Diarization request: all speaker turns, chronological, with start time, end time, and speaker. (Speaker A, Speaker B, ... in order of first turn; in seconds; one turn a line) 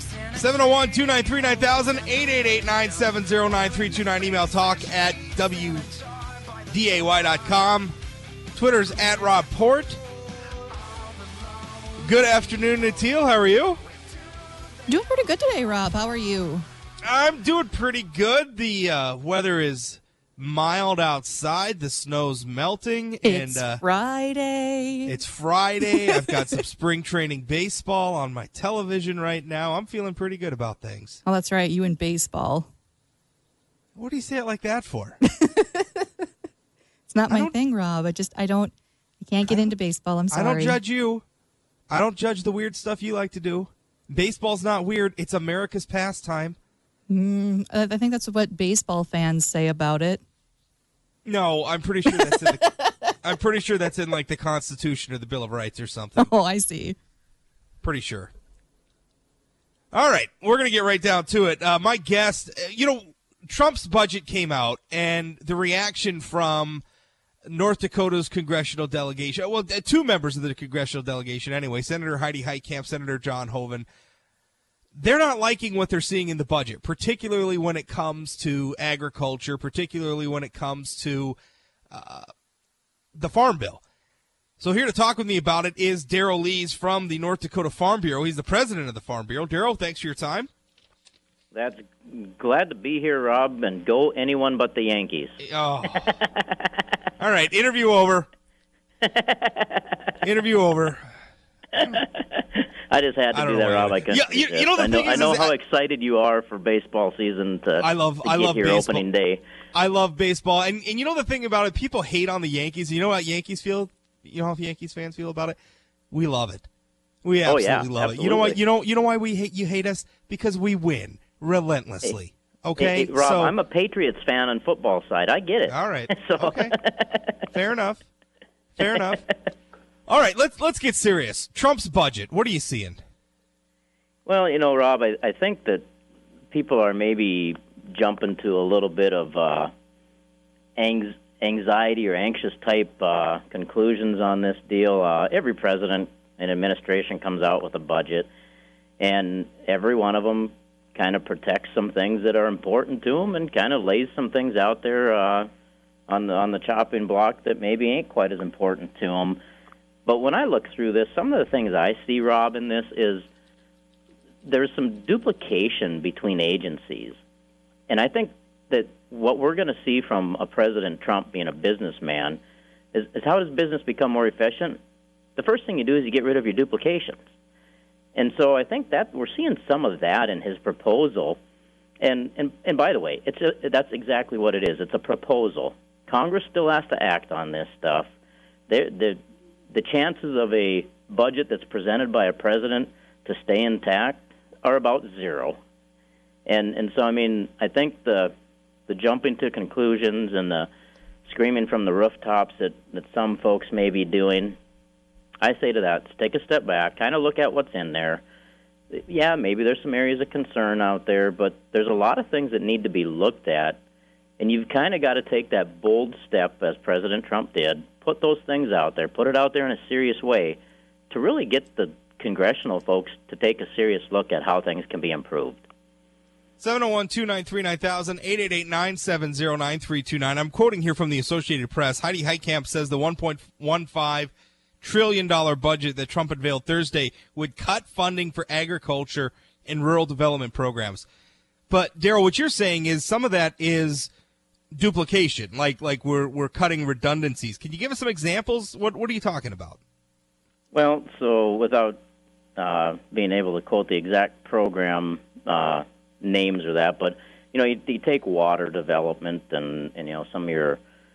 Speaker A: 0.3-5.9
Speaker A: 6.7-8.0
Speaker A: 8.5-10.0
Speaker A: 12.0-13.8
Speaker B: 14.9-16.6
Speaker A: 17.0-23.8
Speaker B: 23.2-25.1
Speaker A: 25.0-31.2
Speaker B: 25.8-26.5
Speaker B: 31.2-32.7
Speaker A: 33.9-35.2
Speaker B: 35.3-36.2
Speaker B: 37.1-40.8
Speaker A: 37.3-37.5
Speaker A: 39.4-39.7
Speaker A: 40.3-41.2
Speaker A: 41.9-46.6
Speaker B: 47.1-50.2
Speaker A: 51.2-56.3
Speaker B: 52.1-52.9
Speaker B: 56.2-57.0
Speaker A: 57.8-58.3
Speaker A: 59.9-66.8
Speaker A: 67.5-73.9
Speaker A: 74.9-81.4
Speaker A: 81.9-82.3
Speaker A: 83.1-83.8
Speaker A: 84.6-90.5
Speaker C: 91.5-96.7
Speaker A: 95.4-96.2
Speaker A: 97.2-98.3
Speaker C: 99.0-100.1
Speaker A: 100.2-101.1
Speaker C: 101.7-109.4
Speaker A: 103.3-105.5
Speaker A: 107.8-109.0
Speaker A: 109.7-115.6
Speaker A: 116.1-116.7
Speaker A: 117.2-123.5
Speaker C: 117.4-118.6
Speaker C: 122.8-127.3
Speaker A: 125.7-126.8
Speaker A: 127.5-128.0
Speaker A: 128.8-129.2
Speaker A: 130.1-133.0
Speaker C: 134.2-135.8
Speaker C: 136.5-139.7
Speaker C: 140.8-148.3
Speaker C: 149.0-155.5
Speaker C: 156.1-159.4
Speaker C: 160.1-163.2
Speaker C: 164.4-167.2
Speaker C: 167.9-172.4
Speaker C: 172.9-174.8
Speaker C: 175.4-177.2
Speaker C: 178.2-181.4
Speaker C: 182.0-188.1
Speaker C: 188.7-189.2
Speaker C: 189.7-195.6
Speaker C: 196.5-198.3
Speaker C: 198.9-200.7
Speaker C: 201.2-204.6
Speaker C: 205.4-208.2
Speaker C: 208.9-213.8
Speaker C: 214.4-220.6
Speaker C: 221.1-225.6
Speaker A: 226.6-241.1
Speaker A: 241.7-244.1
Speaker A: 244.7-249.8
Speaker C: 250.7-252.0
Speaker C: 252.6-260.8